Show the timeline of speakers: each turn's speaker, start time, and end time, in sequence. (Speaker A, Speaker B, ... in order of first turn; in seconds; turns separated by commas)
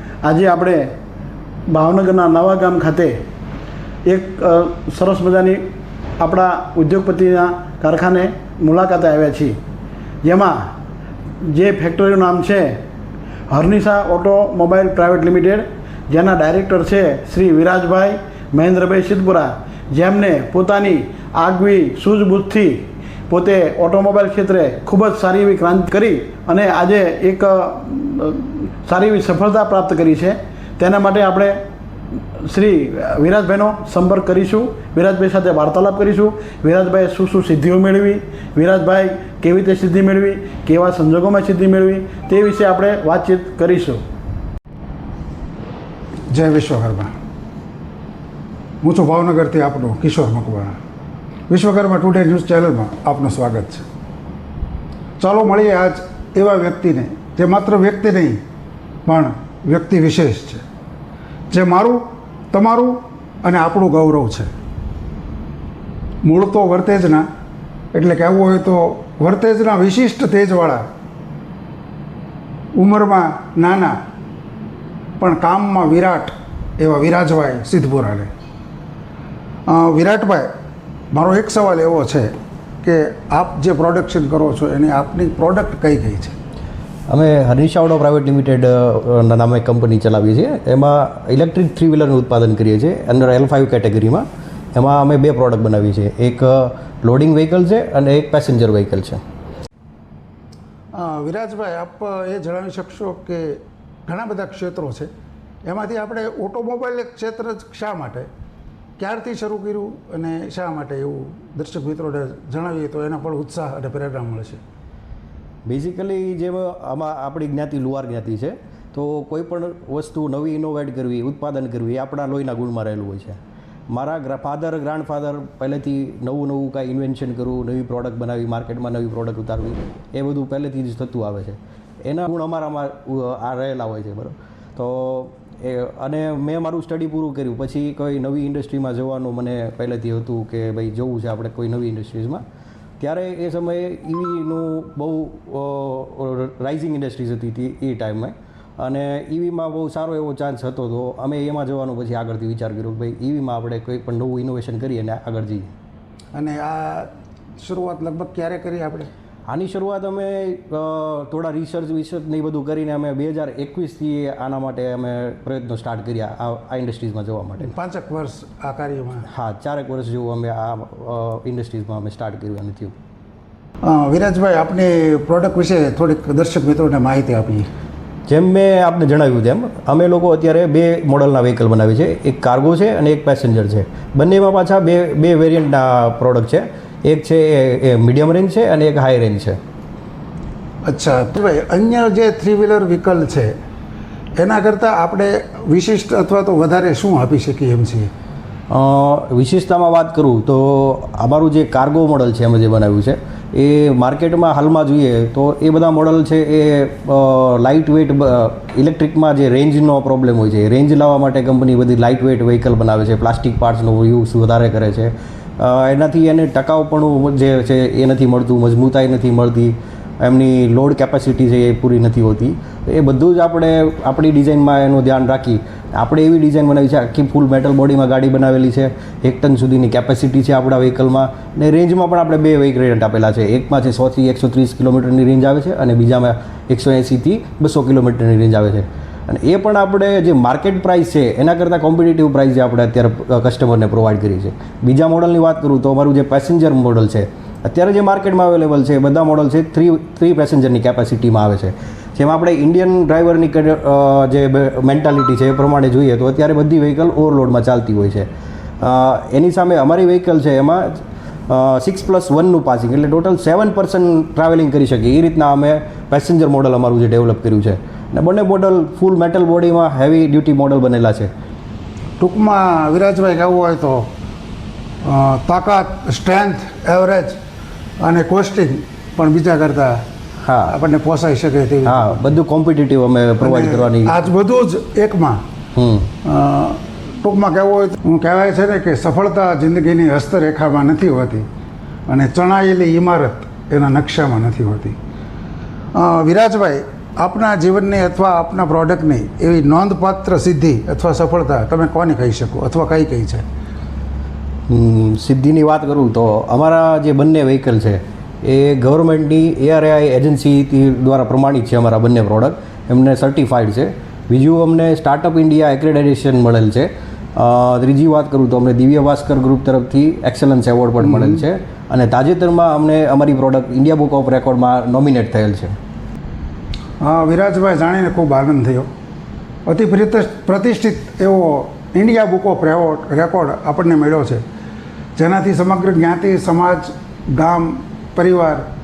Speaker A: 0.2-0.9, Speaker A: 1.7-3.1, Speaker A: 4.1-5.6, Speaker A: 6.2-9.6, Speaker A: 10.2-10.6, Speaker A: 11.5-12.7, Speaker A: 13.5-31.5, Speaker A: 32.4-44.0, Speaker B: 46.3-47.1, Speaker B: 48.8-50.8, Speaker B: 51.5-53.8, Speaker B: 55.2-58.4, Speaker B: 59.0-60.6, Speaker B: 61.5-64.5, Speaker B: 66.2-67.2, Speaker B: 67.9-70.8, Speaker B: 72.8-74.0, Speaker B: 75.2-78.3, Speaker B: 79.7-80.5, Speaker B: 81.1-82.3, Speaker B: 82.8-86.3, Speaker C: 87.1-99.2, Speaker B: 100.9-105.1, Speaker B: 105.7-108.3, Speaker B: 109.0-114.6, Speaker C: 115.7-123.4, Speaker C: 123.9-142.4, Speaker C: 143.0-155.7, Speaker B: 156.3-157.1, Speaker B: 157.6-159.1, Speaker C: 159.5-167.7, Speaker B: 167.6-169.2, Speaker C: 169.3-172.9, Speaker B: 173.8-177.7, Speaker C: 178.3-189.6, Speaker B: 190.8-193.5, Speaker B: 194.4-198.1, Speaker C: 198.7-258.3, Speaker C: 258.8-271.3, Speaker B: 272.2-274.1, Speaker B: 275.0-277.4, Speaker B: 278.0-280.0, Speaker C: 280.4-280.7, Speaker B: 280.7-282.1, Speaker C: 281.8-284.3, Speaker B: 283.4-285.4, Speaker C: 285.8-286.1, Speaker B: 286.2-291.4, Speaker B: 292.1-294.9, Speaker B: 295.9-303.4, Speaker C: 304.7-325.7, Speaker B: 321.0-321.4, Speaker B: 327.0-328.9, Speaker B: 329.7-334.4, Speaker B: 335.2-338.6